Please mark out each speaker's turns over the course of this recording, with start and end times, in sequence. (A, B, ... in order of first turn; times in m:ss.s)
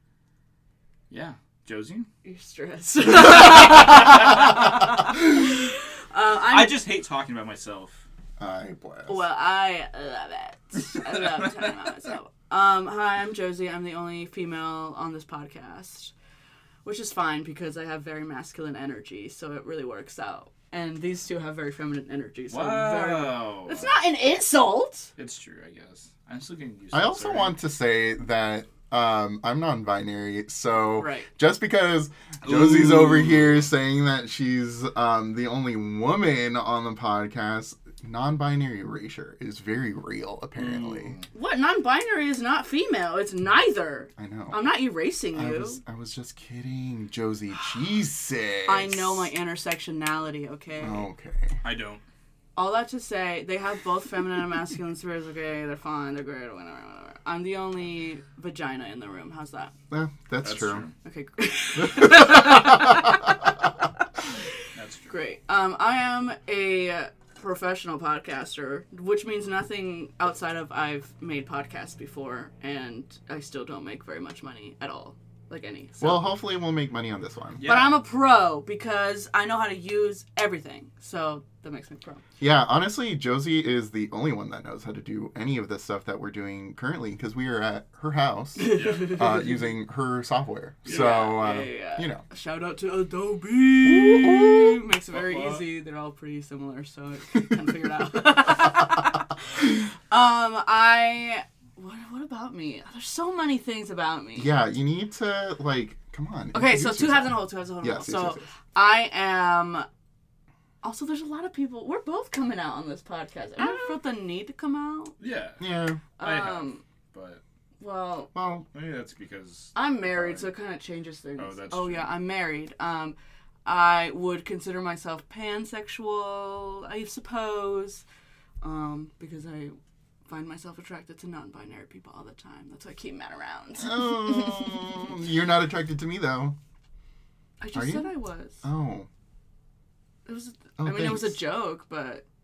0:01.1-0:02.1 A
0:02.2-0:05.5 B
0:03.5-0:04.2 A
0:06.1-0:06.8 B
0:06.5-0:08.0 A
0:08.4-0:09.3 C
0:09.1-0:16.1 B
0:16.8-0:25.1 B
0:22.5-0:23.9 A
0:25.2-0:27.6 A
0:26.9-0:41.2 C
0:31.0-0:31.3 B
0:32.4-0:33.7 A
0:40.6-0:41.3 A
0:41.3-0:45.8 B
0:44.2-0:44.7 C
0:45.3-0:49.3 C
0:48.6-0:51.1 B
0:50.8-0:51.6 C
0:51.6-0:52.0 A
0:52.6-0:59.7 B
0:59.9-1:00.8 C
1:00.4-1:00.9 A
1:01.0-1:03.4 B
1:01.8-1:03.1 C
1:04.7-1:05.1 A
1:05.1-1:16.3 B
1:16.0-1:17.6 C
1:17.6-1:18.0 A
1:17.6-1:22.2 B
1:22.4-1:32.2 C
1:28.6-1:29.6 B
1:28.7-1:29.2 A
1:30.8-1:31.6 A
1:30.9-1:44.5 B
1:33.8-1:34.8 C
1:35.1-1:35.6 A
1:44.4-1:48.5 C
1:46.5-1:49.9 B
1:50.8-1:55.2 B
1:53.6-1:54.0 C
1:55.2-1:57.4 A
1:55.6-1:56.0 C
1:56.2-1:56.8 B
1:57.8-1:58.3 B
1:58.3-1:58.7 C
1:58.7-2:00.5 A
1:59.7-2:08.0 B
2:01.4-2:02.2 A
2:08.6-2:09.8 B
2:10.3-2:15.0 B
2:13.8-2:16.6 C
2:17.6-2:18.6 B
2:17.7-2:19.1 C
2:20.2-2:22.2 B
2:20.8-2:21.4 C